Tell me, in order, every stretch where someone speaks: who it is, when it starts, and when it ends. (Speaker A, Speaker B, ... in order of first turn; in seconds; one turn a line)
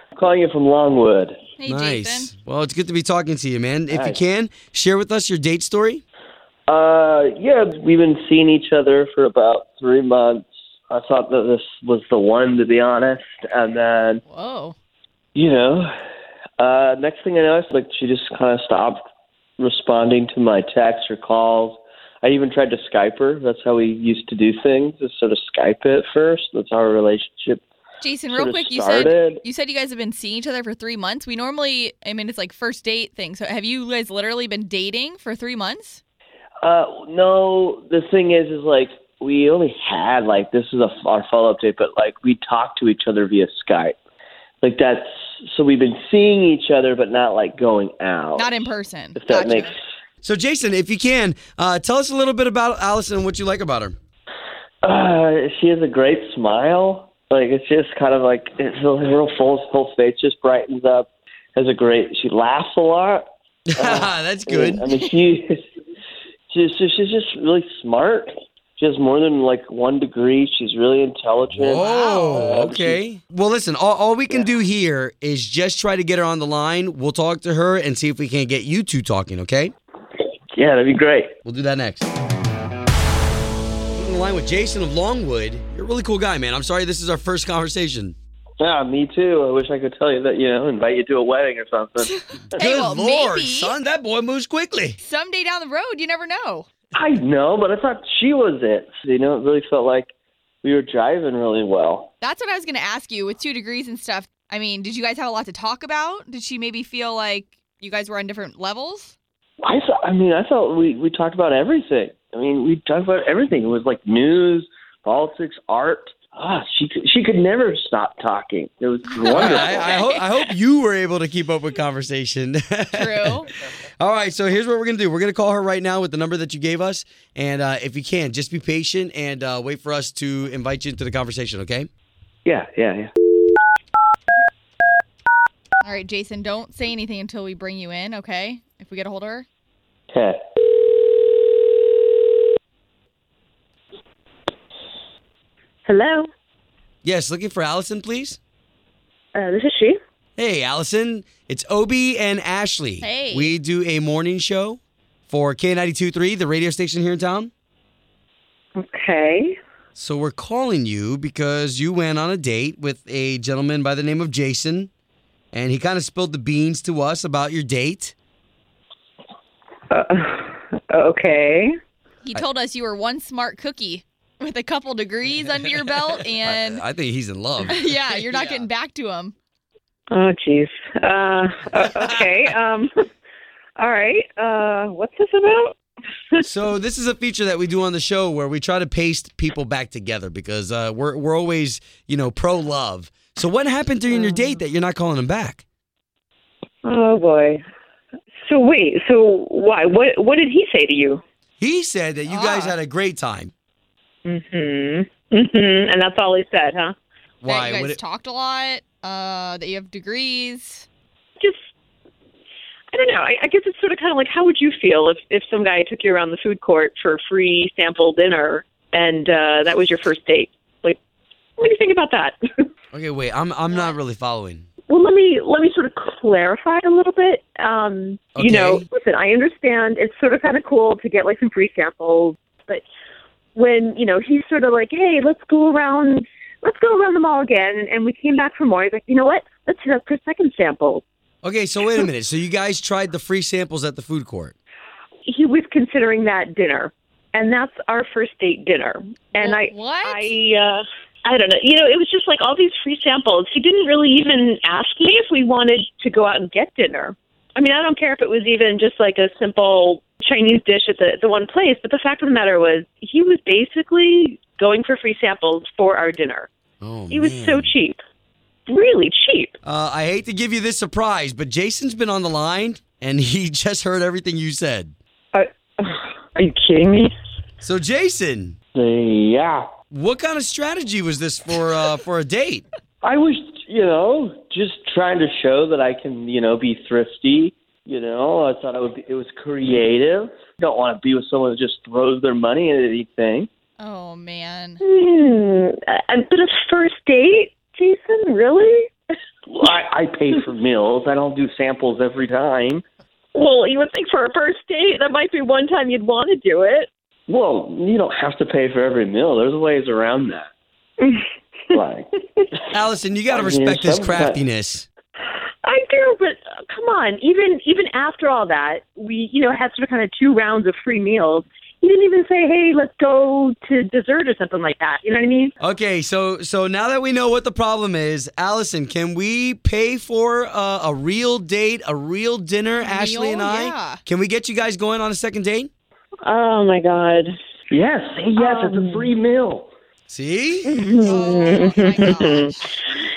Speaker A: 0.1-1.4
Speaker B: 1.6-2.3
Speaker C: 1.6-6.0
Speaker A: 3.9-4.2
Speaker A: 6.7-14.2
Speaker B: 14.3-14.8
Speaker A: 15.3-15.9
Speaker A: 16.6-19.0
Speaker A: 19.6-27.6
Speaker B: 28.0-36.0
Speaker A: 28.3-29.4
Speaker A: 36.6-43.9
Speaker A: 44.6-48.6
Speaker B: 48.4-49.7
Speaker A: 49.1-49.8
Speaker C: 50.2-53.9
Speaker A: 54.8-65.6
Speaker C: 63.7-64.8
Speaker A: 66.5-73.0
Speaker C: 71.5-79.7
Speaker B: 71.8-72.5
Speaker A: 80.5-81.3
Speaker C: 81.4-82.1
Speaker C: 83.9-88.2
Speaker A: 88.6-92.2
Speaker B: 92.0-93.7
Speaker C: 92.6-95.0
Speaker B: 95.0-96.7
Speaker A: 96.9-100.1
Speaker A: 100.6-102.1
Speaker B: 102.2-109.1
Speaker A: 109.6-119.9
Speaker B: 119.1-120.5
Speaker C: 119.3-123.5
Speaker B: 122.9-123.5
Speaker C: 124.0-131.9
Speaker A: 132.4-133.1
Speaker B: 135.8-139.4
Speaker A: 140.1-140.4
Speaker D: 145.8-146.3
Speaker C: 147.0-148.4
Speaker D: 149.3-150.0
Speaker C: 150.4-157.5
Speaker B: 153.0-153.5
Speaker D: 158.8-159.6
Speaker C: 159.9-164.9
Speaker C: 165.5-168.1
Speaker D: 169.9-171.7
Speaker B: 172.2-176.8
Speaker C: 176.4-178.7
Speaker B: 177.7-179.3
Speaker D: 180.1-182.9
Speaker C: 181.8-182.4
Speaker D: 183.8-185.8
Speaker C: 186.4-195.6
Speaker D: 194.1-194.6
Speaker D: 196.8-197.6
Speaker D: 198.4-201.2
Speaker C: 201.6-203.5
Speaker B: 202.3-202.7
Speaker D: 204.2-206.9
Speaker C: 207.4-208.0
Speaker B: 207.4-210.8
Speaker D: 212.9-221.0
Speaker D: 221.6-222.4
Speaker C: 222.9-224.7
Speaker D: 224.9-232.8
Speaker C: 228.3-228.8
Speaker D: 233.5-241.0
Speaker C: 241.4-244.5
Speaker D: 245.2-266.5
Speaker B: 249.4-250.3
Speaker C: 266.8-267.7
Speaker D: 267.1-268.0
Speaker D: 268.7-269.5
Speaker C: 269.6-274.9
Speaker D: 275.3-277.1
Speaker C: 277.6-278.6
Speaker A: 278.7-279.6
Speaker C: 279.9-282.6
Speaker A: 283.0-293.5
Speaker B: 293.8-294.8
Speaker D: 294.8-298.9
Speaker A: 299.5-302.8
Speaker D: 303.3-306.9
Speaker A: 307.3-310.5
Speaker A: 311.7-312.1
Speaker C: 312.7-314.9
Speaker A: 313.3-314.4
Speaker D: 315.6-325.5
Speaker C: 325.6-335.7
Speaker B: 332.8-334.0
Speaker D: 336.2-337.3
Speaker A: 337.7-339.7
Speaker D: 338.4-339.1
Speaker C: 340.1-340.8
Speaker D: 340.6-342.5
Speaker B: 341.0-342.8